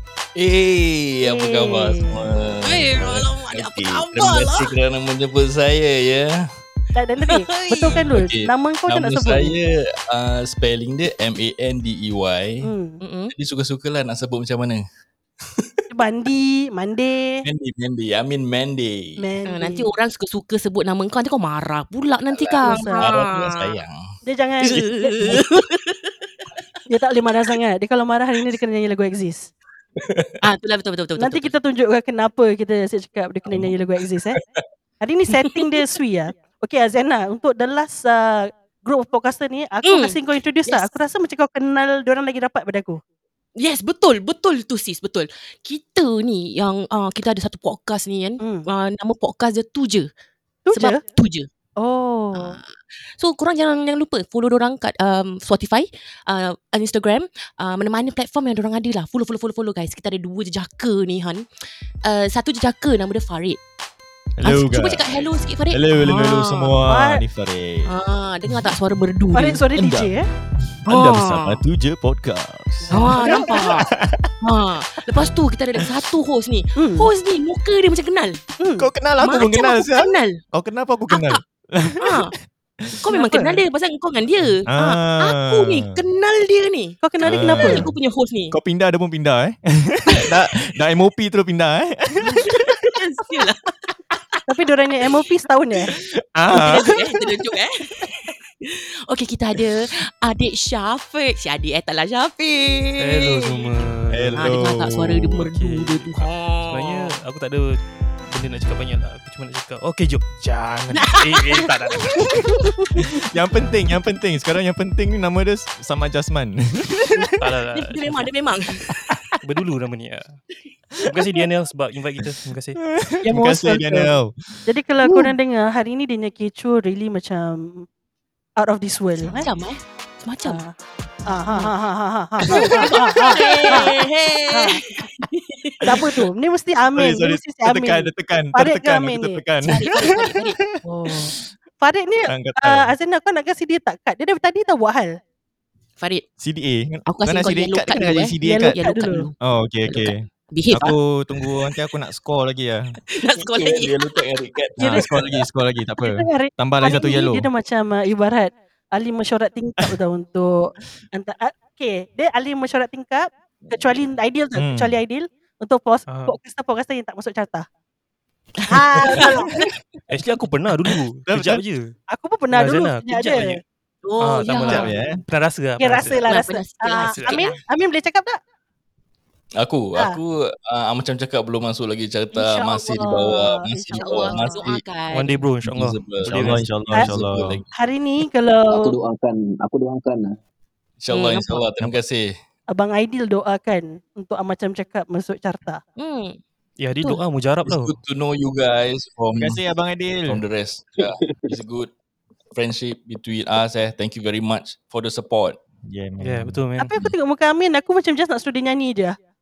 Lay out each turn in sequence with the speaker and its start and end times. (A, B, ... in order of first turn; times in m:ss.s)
0:00.4-0:06.5 A
0:01.2-0:02.3 B
0:02.6-0:04.7 C
0:07.0-0:09.5 B
0:07.3-0:08.0 C
0:08.1-0:12.7 A
0:12.6-0:13.0 B
0:13.0-0:13.3 C
0:13.3-0:14.8 A
0:15.4-0:15.7 A
0:15.9-0:17.4 B
0:17.4-0:19.3 A
0:19.2-0:19.9 B
0:19.5-0:23.8 C
0:22.3-0:24.1 A
0:22.6-0:23.2 B
0:24.2-0:25.2 B
0:24.6-0:26.2 C
0:24.7-0:25.5 A
0:26.9-0:29.5 B
0:30.0-0:30.4 A
0:30.4-0:31.5 C
0:31.2-0:34.4 B
0:33.5-0:33.7 A
0:35.0-0:43.0 B
0:35.3-0:35.6 C
0:39.8-0:40.9 C
0:43.6-0:50.1 C
0:48.4-0:48.7 B
0:50.7-0:51.0 B
0:50.7-0:51.5 C
0:51.8-0:52.6 B
0:52.3-1:01.4 C
1:02.0-1:03.6 C
1:04.4-1:07.9 D
1:04.4-1:06.8 C
1:06.8-1:07.2 B
1:07.9-1:09.6 C
1:08.5-1:08.8 D
1:09.3-1:10.3 B
1:09.8-1:10.1 D
1:10.7-1:14.3 D
1:10.9-1:11.6 C
1:12.8-1:13.6 B
1:12.9-1:13.9 C
1:14.4-1:18.4 C
1:15.8-1:16.1 D
1:16.8-1:17.1 B
1:18.6-1:18.9 B
1:18.8-1:23.1 D
1:19.2-1:20.4 C
1:21.1-1:21.4 C
1:22.0-1:22.3 C
1:23.0-1:28.6 C
1:23.1-1:23.6 B
1:24.7-1:26.0 D
1:27.0-1:27.9 B
1:27.2-1:28.0 D
1:28.5-1:32.8 D
1:32.3-1:33.7 C
1:34.5-1:35.9 B
1:35.9-1:37.4 D
1:36.5-1:43.6 C
1:43.0-1:44.7 E
1:44.1-1:46.0 D
1:44.4-1:47.1 C
1:45.6-1:52.5 E
1:50.9-1:52.9 C
1:53.0-1:57.5 D
1:57.3-1:58.2 E
1:57.7-1:59.2 C
1:59.4-2:00.4 E
2:01.0-2:02.8 E
2:01.1-2:01.5 D
2:02.2-2:05.3 D
2:03.2-2:04.1 B
2:04.7-2:07.9 B
2:08.6-2:09.5 B
2:09.2-2:10.6 C
2:10.4-2:10.7 B
2:11.3-2:14.0 B
2:12.5-2:16.2 C
2:12.5-2:14.0 D
2:14.5-2:14.8 B
2:15.8-2:19.4 B
2:17.0-2:21.2 D
2:19.6-2:20.8 C
2:20.8-2:25.2 B
2:22.3-2:23.0 D
2:26.0-2:26.2 C
2:26.4-2:28.8 D
2:27.1-2:29.3 C
2:28.4-2:29.3 B
2:29.4-2:33.0 D
2:29.9-2:31.0 C
2:33.1-2:34.2 C
2:33.4-2:35.5 A
2:34.8-2:35.0 B
2:34.8-2:37.5 D
2:36.0-2:47.7 B
2:44.6-2:45.0 D
2:46.1-2:46.4 E
2:48.7-2:49.5 B
2:49.1-2:49.7 D
2:49.2-2:49.6 C
2:50.1-2:52.0 E
2:51.3-2:51.6 D
2:52.1-2:53.6 B
2:52.5-2:53.6 E
2:54.0-2:54.9 C
2:54.2-2:56.3 E
2:54.7-2:55.2 D
2:55.8-2:58.4 B
2:56.3-2:57.5 C
2:57.0-2:57.6 E
2:59.6-3:04.8 A
3:02.3-3:04.7 B
3:03.9-3:05.4 C
3:05.1-3:06.6 E
3:05.6-3:07.6 D
3:05.7-3:07.7 A
3:07.7-3:09.0 B
3:08.7-3:10.4 F
3:11.0-3:12.3 A
3:11.1-3:11.6 C
3:12.7-3:15.8 B
3:16.0-3:16.4 C
3:16.8-3:18.0 E
3:17.7-3:19.6 A
3:19.4-3:20.4 D
3:20.3-3:21.9 A
3:21.0-3:21.6 F
3:22.5-3:25.6 A
3:25.8-3:26.6 D
3:26.2-3:26.9 E
3:26.8-3:29.2 B